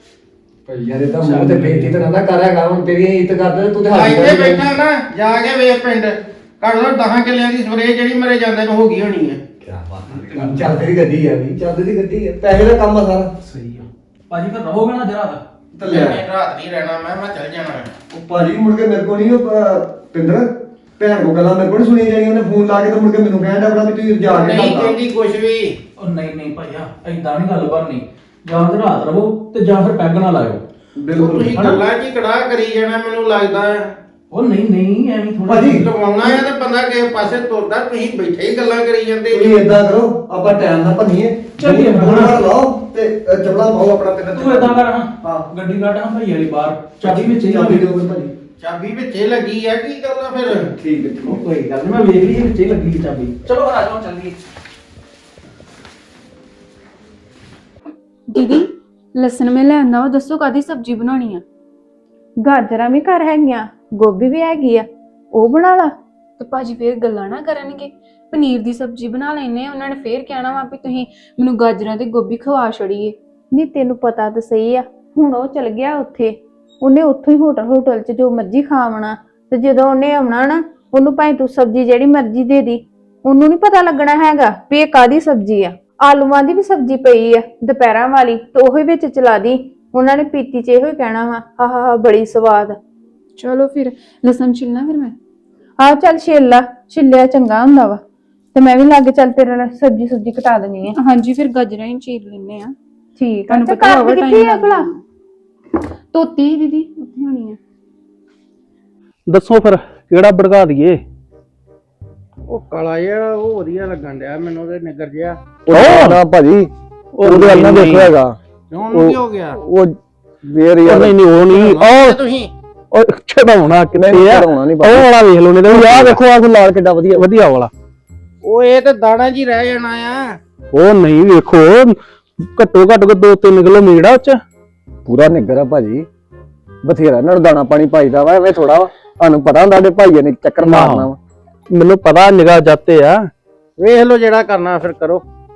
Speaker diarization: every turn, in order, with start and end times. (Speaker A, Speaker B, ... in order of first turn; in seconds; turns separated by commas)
Speaker A: 0.7-4.6, Speaker B: 1.2-2.0, Speaker C: 3.9-9.4, Speaker A: 9.6-13.3, Speaker B: 10.1-10.8, Speaker B: 13.4-15.4, Speaker A: 15.8-16.2, Speaker C: 15.8-17.9, Speaker A: 18.1-25.0, Speaker C: 24.3-25.8, Speaker B: 26.0-30.6, Speaker A: 31.0-31.5, Speaker C: 31.1-34.0, Speaker B: 31.5-31.8, Speaker B: 34.3-35.9, Speaker A: 35.5-35.9, Speaker C: 35.8-39.5, Speaker A: 39.3-45.5, Speaker B: 41.6-42.4, Speaker B: 44.3-47.9, Speaker A: 47.0-48.3, Speaker C: 48.6-50.7, Speaker A: 50.7-51.4, Speaker B: 51.2-54.4, Speaker D: 58.3-61.4, Speaker E: 62.4-65.9, Speaker D: 66.4-73.2, Speaker E: 73.5-92.8, Speaker D: 93.4-95.2, Speaker E: 95.8-98.0, Speaker E: 98.5-101.0, Speaker D: 100.9-102.8, Speaker E: 103.2-104.9, Speaker D: 103.5-105.0, Speaker D: 106.1-107.6, Speaker B: 109.3-111.0, Speaker C: 112.5-115.4, Speaker A: 115.7-116.7, Speaker B: 115.7-116.2, Speaker B: 117.2-118.1, Speaker A: 117.2-118.4, Speaker C: 118.7-119.6, Speaker A: 118.9-121.2, Speaker B: 120.8-122.2, Speaker C: 121.5-122.5, Speaker B: 122.9-126.2, Speaker A: 123.9-125.1, Speaker A: 125.7-127.3, Speaker B: 127.1-127.7, Speaker C: 128.4-130.4, Speaker B: 130.7-134.4, Speaker A: 135.1-136.1, Speaker A: 136.8-141.2, Speaker B: 140.6-141.1, Speaker B: 141.7-143.3, Speaker C: 143.8-145.2